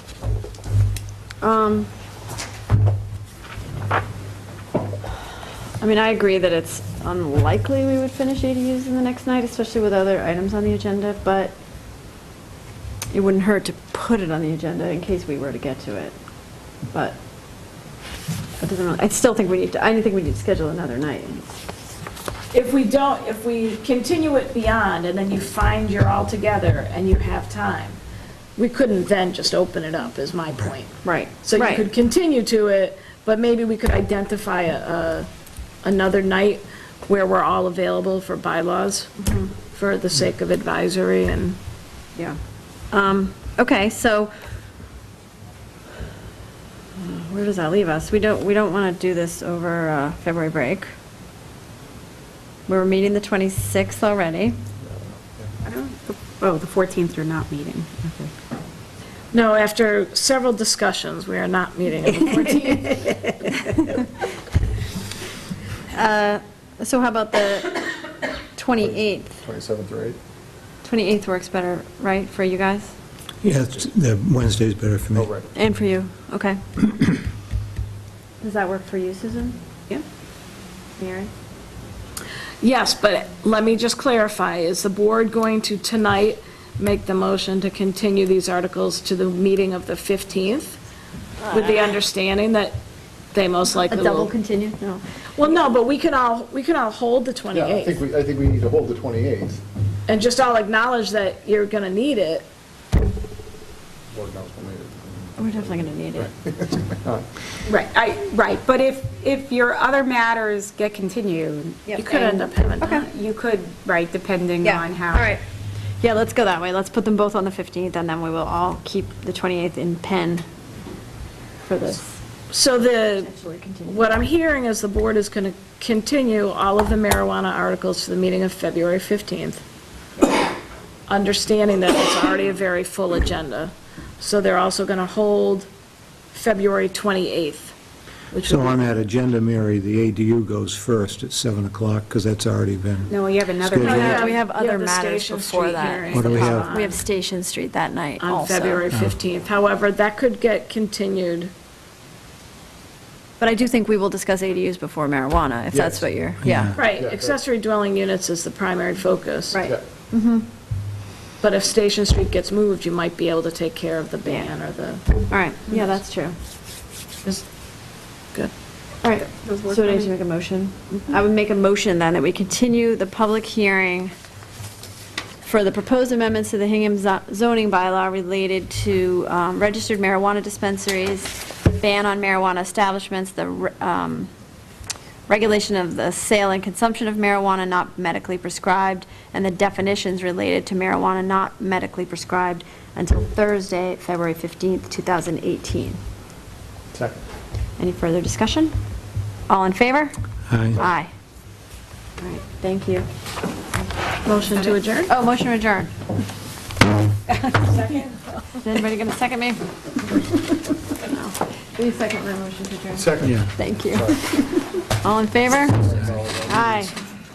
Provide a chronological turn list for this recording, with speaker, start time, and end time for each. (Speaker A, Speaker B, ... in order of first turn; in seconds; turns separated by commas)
Speaker A: 1.4-1.9, Speaker A: 5.8-11.6, Speaker A: 13.1-16.1, Speaker A: 16.9-17.2, Speaker A: 18.6-21.5, Speaker B: 22.5-28.0, Speaker B: 28.6-35.3, Speaker A: 31.0-31.8, Speaker B: 35.8-39.1, Speaker A: 39.2-39.5, Speaker B: 39.7-41.6, Speaker A: 42.9-44.3, Speaker A: 47.0-50.9, Speaker A: 52.7-54.6, Speaker C: 54.8-55.5, Speaker D: 55.6-58.3, Speaker B: 59.3-63.4, Speaker A: 65.9-67.9, Speaker A: 68.5-69.4, Speaker C: 68.8-70.2, Speaker A: 70.8-72.9, Speaker E: 73.4-75.3, Speaker C: 75.1-75.5, Speaker A: 75.5-76.6, Speaker A: 78.4-79.6, Speaker A: 81.0-81.3, Speaker B: 82.6-90.8, Speaker A: 91.4-91.7, Speaker B: 91.5-92.8, Speaker B: 93.3-94.3, Speaker A: 93.8-95.0, Speaker B: 95.4-98.0, Speaker C: 97.5-99.6, Speaker B: 100.1-102.5, Speaker C: 104.1-107.2, Speaker A: 105.4-106.3, Speaker D: 107.7-111.8, Speaker A: 111.9-113.1, Speaker B: 111.9-113.1, Speaker D: 113.0-115.3, Speaker A: 114.6-115.4, Speaker A: 116.0-120.4, Speaker A: 121.6-122.2, Speaker B: 122.5-123.3, Speaker A: 123.1-124.2, Speaker B: 123.9-129.6, Speaker A: 130.2-130.5, Speaker B: 131.1-135.7, Speaker B: 136.3-137.7, Speaker B: 138.3-138.8, Speaker E: 138.4-144.2, Speaker D: 143.1-144.3, Speaker B: 143.8-147.0, Speaker A: 143.8-148.8, Speaker E: 146.1-146.7, Speaker B: 148.2-151.5, Speaker A: 153.4-156.8, Speaker C: 155.7-156.0, Speaker E: 156.4-156.8, Speaker B: 156.8-159.7, Speaker C: 156.9-157.4, Speaker A: 159.5-160.5, Speaker B: 161.4-165.0, Speaker A: 165.3-166.3, Speaker A: 169.0-174.1, Speaker D: 169.4-170.1, Speaker A: 175.4-184.3, Speaker A: 185.3-196.0, Speaker C: 196.9-197.2, Speaker A: 197.8-198.7, Speaker A: 199.5-200.1, Speaker E: 200.5-200.8, Speaker A: 200.7-201.1, Speaker A: 202.2-203.1, Speaker B: 204.2-205.1, Speaker A: 204.5-205.9, Speaker B: 207.4-208.3, Speaker A: 208.6-216.9, Speaker C: 212.9-214.2, Speaker E: 213.2-213.5, Speaker C: 215.8-216.9